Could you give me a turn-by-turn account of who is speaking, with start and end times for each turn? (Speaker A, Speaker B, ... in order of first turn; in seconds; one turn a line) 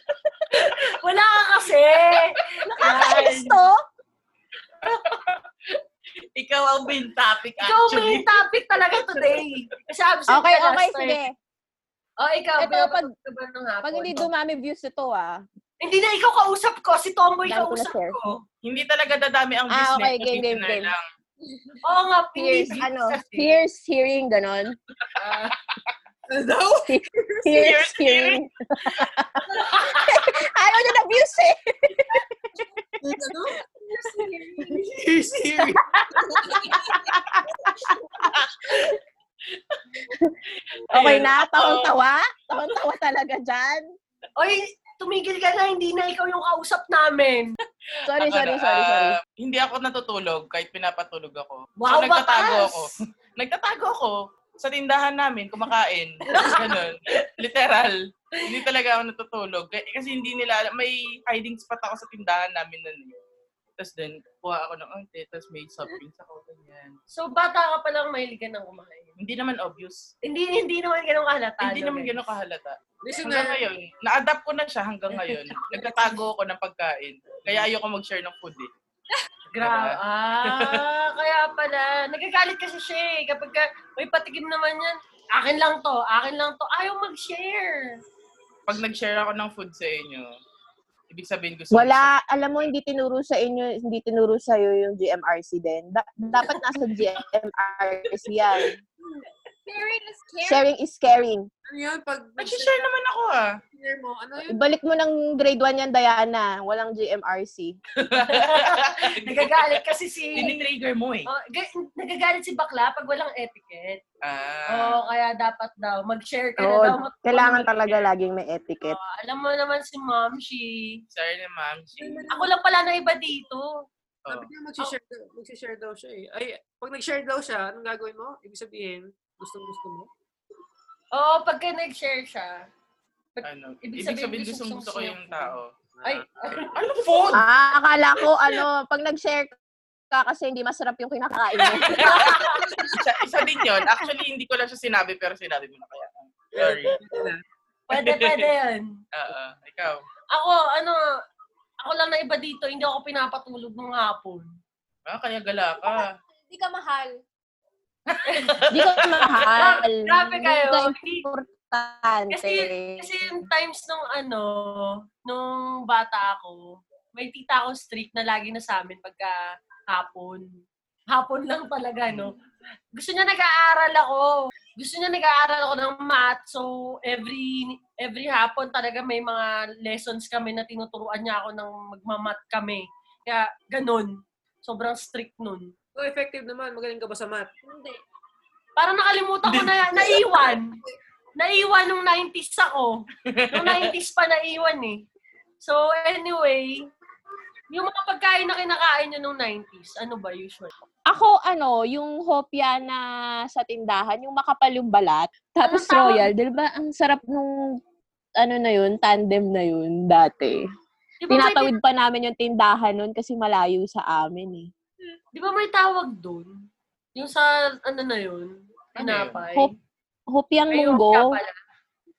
Speaker A: 0.5-3.6
Speaker B: 2.8-3.8
Speaker C: 4.8-5.4
Speaker C: 6.4-8.4
Speaker A: 7.6-11.2
Speaker C: 9.1-9.4
Speaker B: 10.3-11.3
Speaker A: 12.2-14.3
Speaker B: 12.6-13.1
Speaker B: 13.8-15.4
Speaker A: 15.8-18.4
Speaker B: 17.5-18.2
Speaker C: 18.6-21.0
Speaker B: 19.7-20.9
Speaker A: 21.8-23.6
Speaker B: 22.4-24.8
Speaker A: 25.2-25.6
Speaker D: 26.3-27.7
Speaker B: 26.9-32.5
Speaker C: 27.5-28.4
Speaker A: 29.5-30.3
Speaker D: 33.0-33.6
Speaker E: 33.9-34.9
Speaker D: 34.8-37.1
Speaker C: 37.1-37.5
Speaker C: 38.2-39.0
Speaker C: 40.9-41.9
Speaker B: 40.9-43.8
Speaker A: 44.4-47.6
Speaker B: 48.0-49.2
Speaker C: 48.2-63.2
Speaker A: 51.8-52.9
Speaker A: 56.3-56.8
Speaker C: 63.8-67.0
Speaker A: 67.1-69.2
Speaker C: 69.2-70.1
Speaker A: 70.2-72.2
Speaker C: 71.6-78.7
Speaker D: 73.0-73.6
Speaker A: 79.5-88.0
Speaker C: 79.6-80.8
Speaker C: 88.7-90.3
Speaker C: 91.1-92.1
Speaker B: 91.7-98.7
Speaker E: 99.1-100.7
Speaker B: 100.5-101.5
Speaker D: 101.7-102.9
Speaker C: 102.4-103.6
Speaker D: 103.7-104.6
Speaker B: 104.5-107.8
Speaker C: 108.0-109.8
Speaker A: 108.2-110.5
Speaker C: 110.4-111.3
Speaker A: 111.3-114.0
Speaker C: 114.2-115.0
Speaker A: 114.7-117.7
Speaker B: 116.6-119.0
Speaker A: 118.8-121.0
Speaker C: 121.1-122.3
Speaker D: 122.0-122.5
Speaker A: 122.3-123.7
Speaker D: 124.3-130.1
Speaker A: 131.1-132.7
Speaker A: 133.4-136.8
Speaker C: 133.4-135.7
Speaker D: 136.0-136.6
Speaker C: 136.7-137.4
Speaker B: 137.3-139.6
Speaker B: 140.1-142.4
Speaker C: 141.7-147.0
Speaker A: 142.0-142.7
Speaker D: 142.7-143.0
Speaker D: 146.6-147.4
Speaker A: 147.9-148.9
Speaker C: 147.9-148.4
Speaker C: 149.1-150.0
Speaker A: 150.3-151.0
Speaker A: 151.8-154.5
Speaker C: 155.1-156.1
Speaker E: 155.8-157.2
Speaker C: 158.1-159.6
Speaker A: 158.3-158.6
Speaker B: 158.7-163.4
Speaker A: 159.6-161.3
Speaker A: 162.3-170.5
Speaker A: 171.1-172.4
Speaker A: 172.9-185.7
Speaker D: 186.0-187.5
Speaker E: 187.7-188.0
Speaker A: 188.8-190.8
Speaker C: 189.4-190.1
Speaker D: 190.1-190.8
Speaker A: 191.4-195.1
Speaker C: 193.3-193.9
Speaker A: 195.6-196.9
Speaker A: 197.7-200.7
Speaker B: 201.1-207.6
Speaker A: 205.6-206.3
Speaker B: 208.4-210.6
Speaker A: 211.2-211.7
Speaker B: 211.3-214.7
Speaker A: 215.3-216.6
Speaker A: 217.2-219.8
Speaker C: 219.0-219.4
Speaker B: 220.3-221.4
Speaker A: 220.7-221.5